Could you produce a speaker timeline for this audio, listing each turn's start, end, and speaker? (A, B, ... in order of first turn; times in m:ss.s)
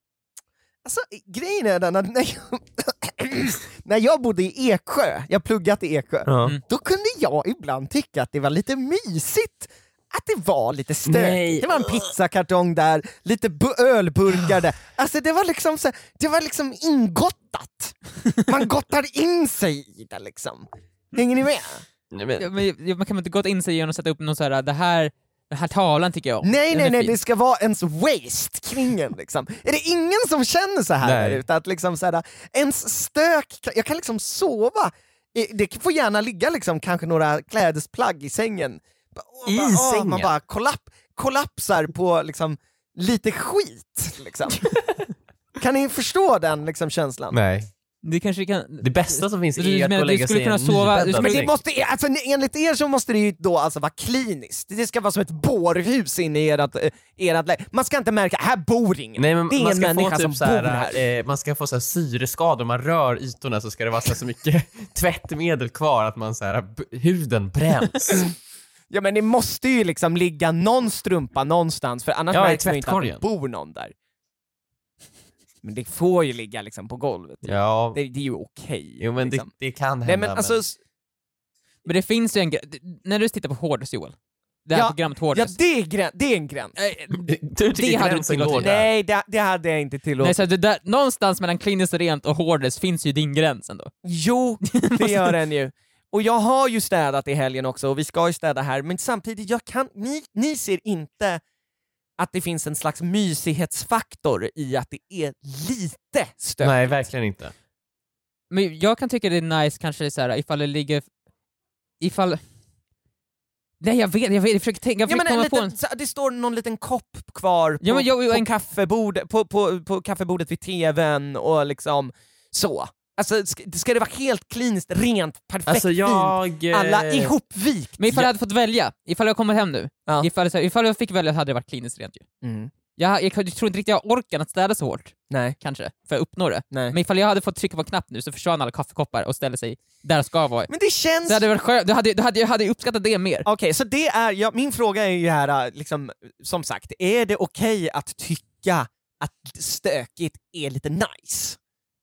0:00.8-0:21.8 A
0:06.3-0:06.6 B
0:11.1-0:12.0 B
0:22.1-0:22.5 B
0:22.4-0:27.2 C
0:26.4-0:44.7 A
0:31.0-0:31.4 B
0:39.5-0:40.3 B
0:45.6-0:47.4 A
0:47.3-0:47.7 B
0:48.0-0:51.5 C
0:48.8-0:51.5 B
0:51.2-1:01.0 A
0:59.2-1:08.2 B
1:08.9-1:13.9 A
1:12.3-1:13.2 B
1:15.6-1:19.5 A
1:17.4-1:18.0 B
1:19.0-1:20.6 B
1:20.0-1:20.8 A
1:21.8-1:25.6 C
1:24.7-1:26.8 A
1:26.8-1:28.7 C
1:27.1-1:28.9 B
1:28.6-1:30.4 A
1:30.2-1:33.9 C
1:34.0-1:41.4 A
1:34.6-1:35.3 C
1:42.2-1:47.0 A
1:46.6-1:47.5 B
1:48.5-1:51.1 C
1:52.0-1:52.4 C
1:53.8-1:55.8 C
1:55.1-2:08.3 A
1:57.8-1:58.5 C
2:05.7-2:07.3 B
2:08.0-2:12.2 C
2:12.4-2:12.7 A
2:13.0-2:20.7 C
2:15.3-2:15.6 A
2:16.7-2:17.0 A
2:20.7-2:21.4 A
2:21.2-2:23.5 C
2:23.4-2:31.6 A